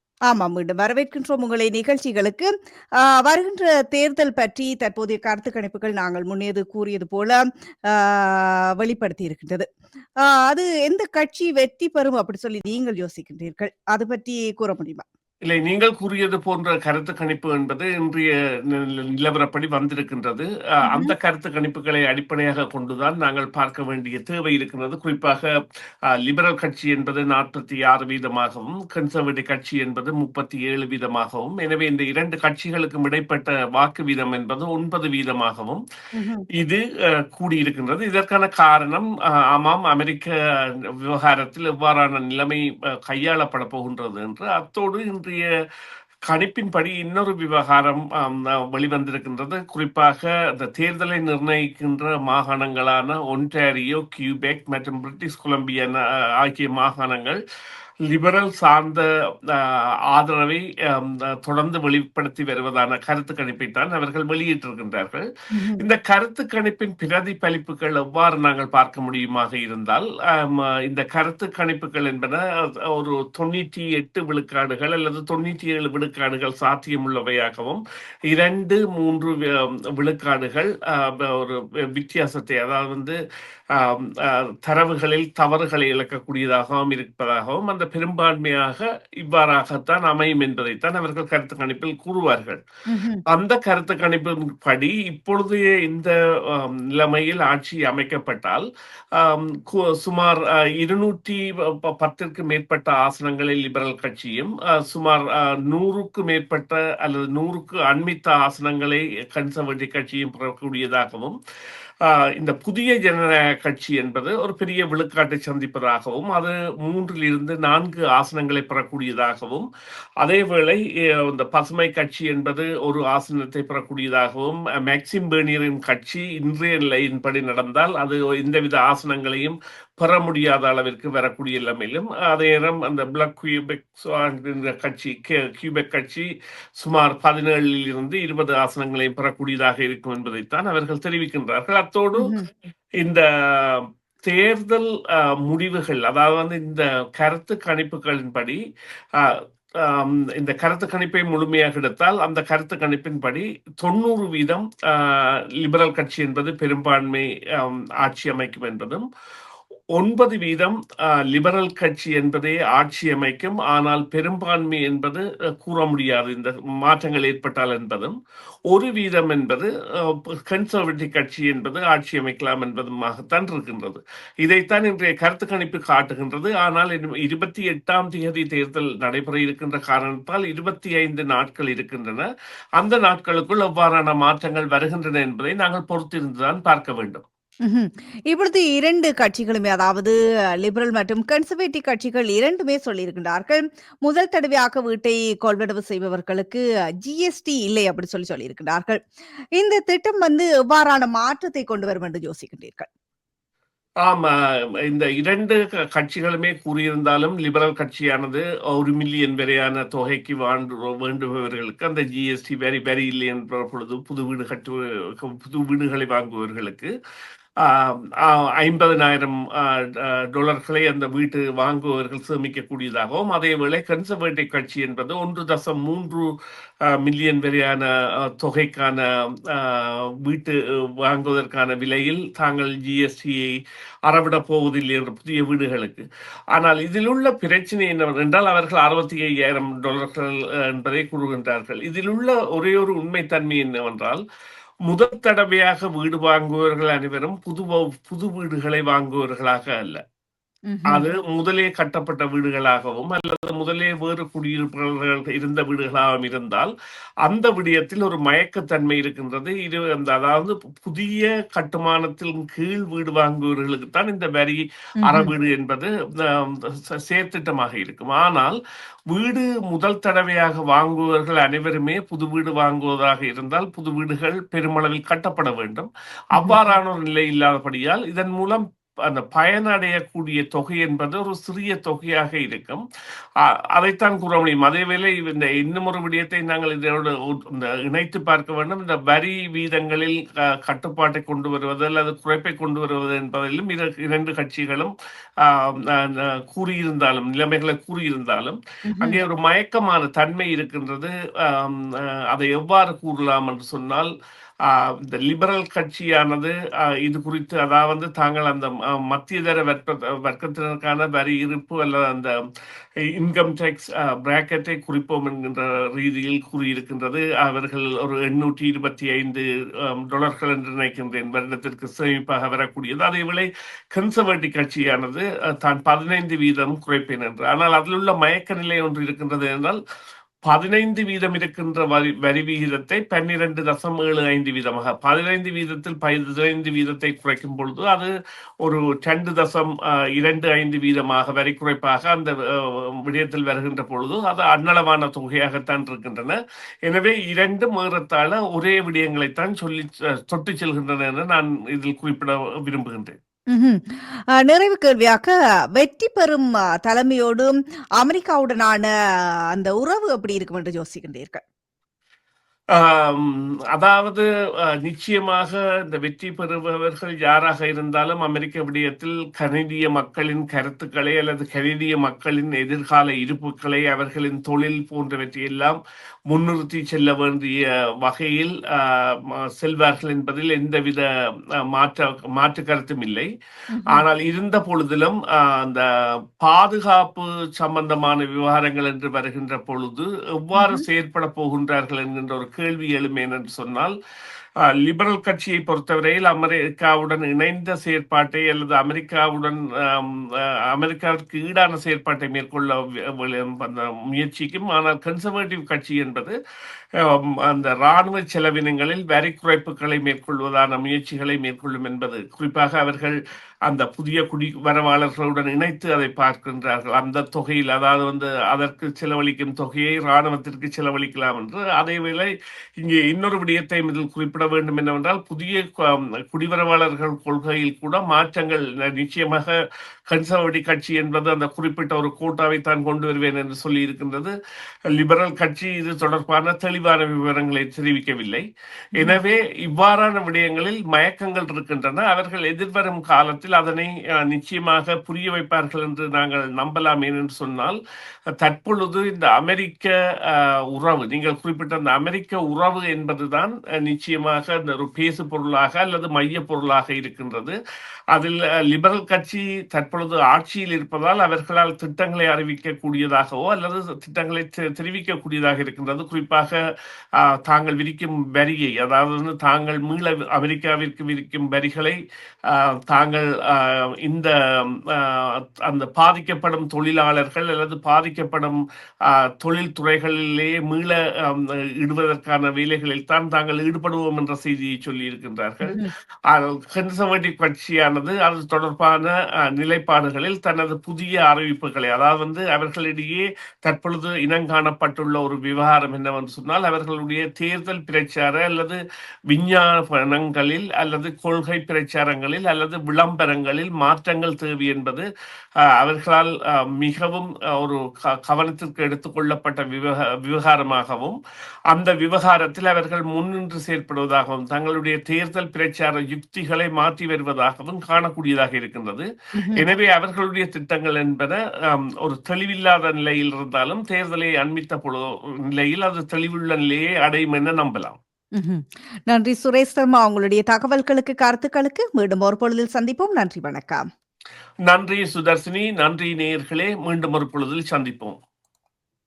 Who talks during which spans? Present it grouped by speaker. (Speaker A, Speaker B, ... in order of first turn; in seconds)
Speaker A: 0.3-2.5, 3.1-9.7, 10.2-15.0, 20.8-21.1, 36.1-36.4, 65.5-65.8, 92.9-93.2, 142.2-142.4, 187.7-199.0, 199.6-202.9, 250.7-251.1, 265.0-265.3, 276.4-276.6, 298.9-299.2, 353.5-358.9, 359.5-361.4, 383.7-384.1, 390.5-390.9, 438.9-439.2, 485.6-485.9, 519.4-519.6, 528.3-533.9
Speaker B: 15.4-25.5, 26.1-35.8, 36.5-45.5, 46.3-57.4, 58.1-65.2, 65.8-83.2, 83.7-92.6, 93.3-98.6, 99.2-111.3, 112.0-119.7, 120.2-136.3, 136.8-142.4, 143.0-148.6, 149.2-159.0, 159.9-168.1, 168.7-187.2, 204.0-216.9, 217.6-226.3, 226.8-233.5, 234.1-244.2, 244.8-250.0, 250.9-256.7, 257.2-268.6, 269.1-282.8, 283.7-294.9, 295.4-304.1, 304.6-312.3, 313.1-329.8, 330.4-338.1, 338.6-353.1, 362.7-375.8, 376.3-381.1, 381.7-383.3, 383.9-385.9, 386.4-393.9, 394.8-406.3, 407.0-429.5, 430.1-434.3, 434.9-438.4, 439.0-447.8, 448.4-457.6, 458.1-466.6, 467.2-472.0, 472.5-505.1, 505.6-511.2, 511.7-528.0, 534.7-538.2